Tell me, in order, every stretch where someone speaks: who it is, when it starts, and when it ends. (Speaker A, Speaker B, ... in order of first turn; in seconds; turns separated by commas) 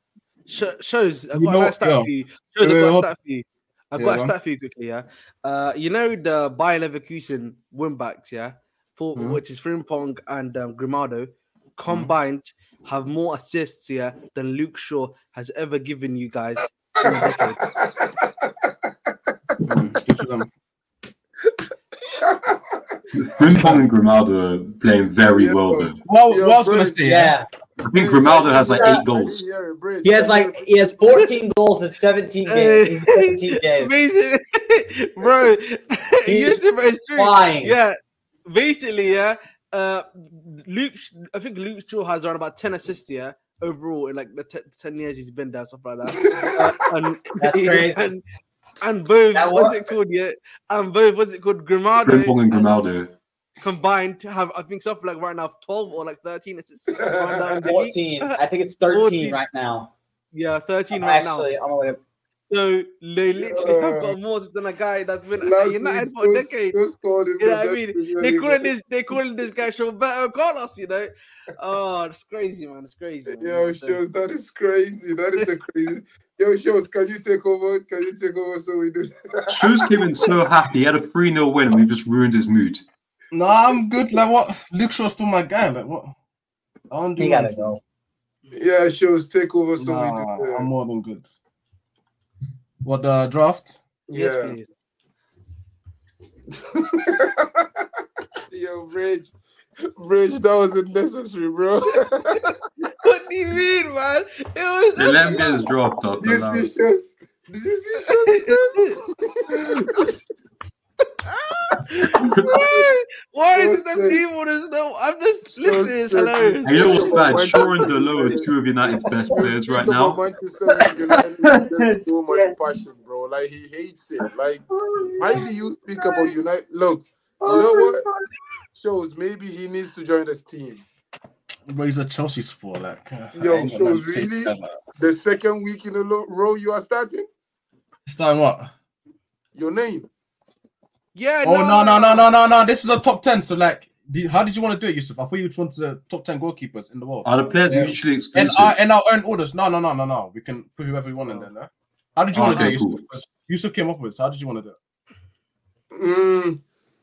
Speaker A: 0.5-17.7, Speaker B: 1.3-3.1, Speaker B: 4.0-4.3, Speaker B: 9.1-9.4, Speaker B: 11.9-12.1, Speaker C: 17.1-18.7, Speaker B: 19.6-20.5, Speaker C: 22.2-22.9, Speaker D: 23.1-26.0, Speaker C: 25.2-27.0, Speaker B: 26.0-27.3, Speaker E: 27.0-27.5, Speaker D: 27.8-29.4, Speaker C: 27.9-31.2, Speaker E: 30.0-33.9, Speaker A: 32.5-48.2, Speaker E: 36.2-36.6, Speaker E: 37.1-37.8, Speaker C: 46.2-46.8, Speaker E: 47.4-48.1, Speaker A: 48.8-52.6, Speaker E: 49.3-49.8, Speaker D: 52.0-53.1, Speaker A: 53.6-58.4, Speaker C: 57.0-57.7, Speaker E: 57.6-59.9, Speaker A: 58.9-59.4, Speaker A: 60.3-61.5, Speaker E: 60.9-62.0, Speaker A: 62.5-66.8, Speaker C: 63.4-64.2, Speaker C: 65.4-68.7, Speaker A: 67.4-74.0, Speaker C: 73.3-79.8, Speaker D: 79.5-82.8, Speaker B: 83.3-86.2, Speaker B: 86.9-87.8, Speaker E: 87.2-87.8, Speaker C: 88.5-90.7, Speaker B: 89.8-91.3, Speaker B: 92.8-93.8, Speaker C: 94.1-94.6, Speaker A: 94.1-94.7, Speaker C: 96.6-97.8, Speaker C: 98.5-99.3, Speaker C: 100.0-102.5, Speaker A: 102.8-105.6, Speaker D: 105.0-106.7, Speaker C: 106.2-110.1, Speaker A: 108.2-109.0, Speaker A: 111.2-117.1, Speaker D: 112.1-112.5, Speaker C: 112.4-112.8, Speaker C: 113.5-114.2, Speaker C: 115.6-124.6, Speaker D: 116.6-120.2, Speaker E: 120.8-122.5, Speaker E: 124.7-126.3, Speaker C: 125.2-128.0, Speaker E: 127.4-128.3, Speaker C: 128.8-130.8, Speaker B: 131.7-134.8, Speaker C: 133.3-137.3, Speaker B: 138.1-138.7, Speaker C: 139.5-140.1, Speaker A: 141.1-142.2, Speaker B: 141.4-154.8, Speaker D: 147.2-148.8, Speaker D: 152.3-153.0, Speaker C: 155.9-156.6